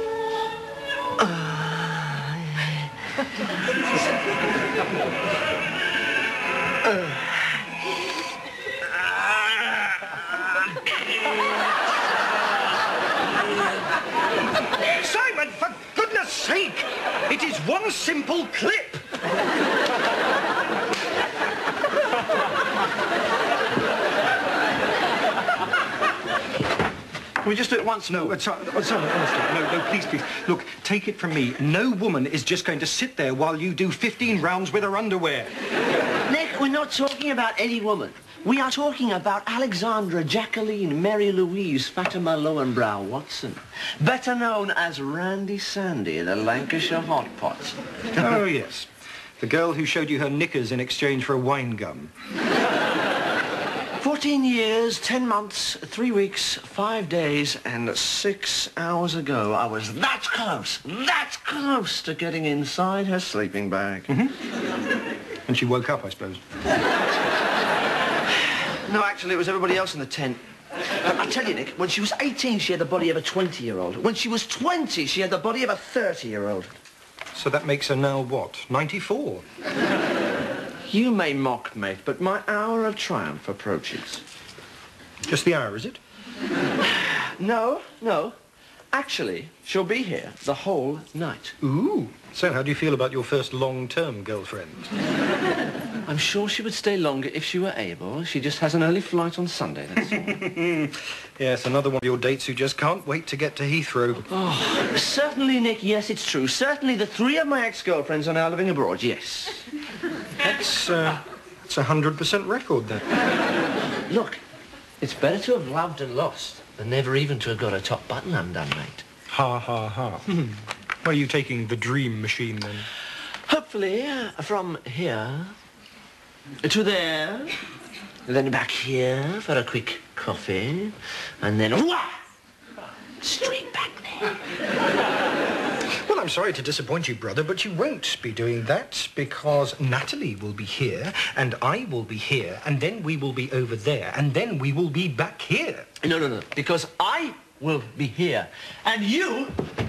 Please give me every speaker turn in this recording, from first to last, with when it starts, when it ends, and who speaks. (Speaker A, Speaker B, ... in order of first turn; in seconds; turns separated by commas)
Speaker A: 1.2-2.9, Speaker A: 7.0-7.3, Speaker B: 14.9-19.1, Speaker A: 27.4-28.4, Speaker B: 28.1-35.5, Speaker A: 36.3-47.8, Speaker B: 48.1-48.9, Speaker B: 49.4-52.1, Speaker A: 54.0-64.1, Speaker B: 64.1-64.3, Speaker B: 65.5-66.4, Speaker A: 68.8-70.4, Speaker A: 71.0-76.7, Speaker B: 77.3-79.5, Speaker A: 80.9-84.2, Speaker B: 85.3-86.0, Speaker A: 86.9-88.3, Speaker A: 88.9-91.5, Speaker B: 91.6-94.9, Speaker A: 96.1-100.2, Speaker B: 100.0-104.3, Speaker A: 104.3-109.7, Speaker B: 110.4-113.0, Speaker A: 114.1-114.4, Speaker A: 115.0-119.0, Speaker B: 119.3-120.5, Speaker B: 121.0-122.9, Speaker A: 123.5-125.5, Speaker A: 126.6-127.6, Speaker A: 128.3-132.2, Speaker A: 133.2-134.4, Speaker B: 135.9-145.9, Speaker A: 146.0-149.6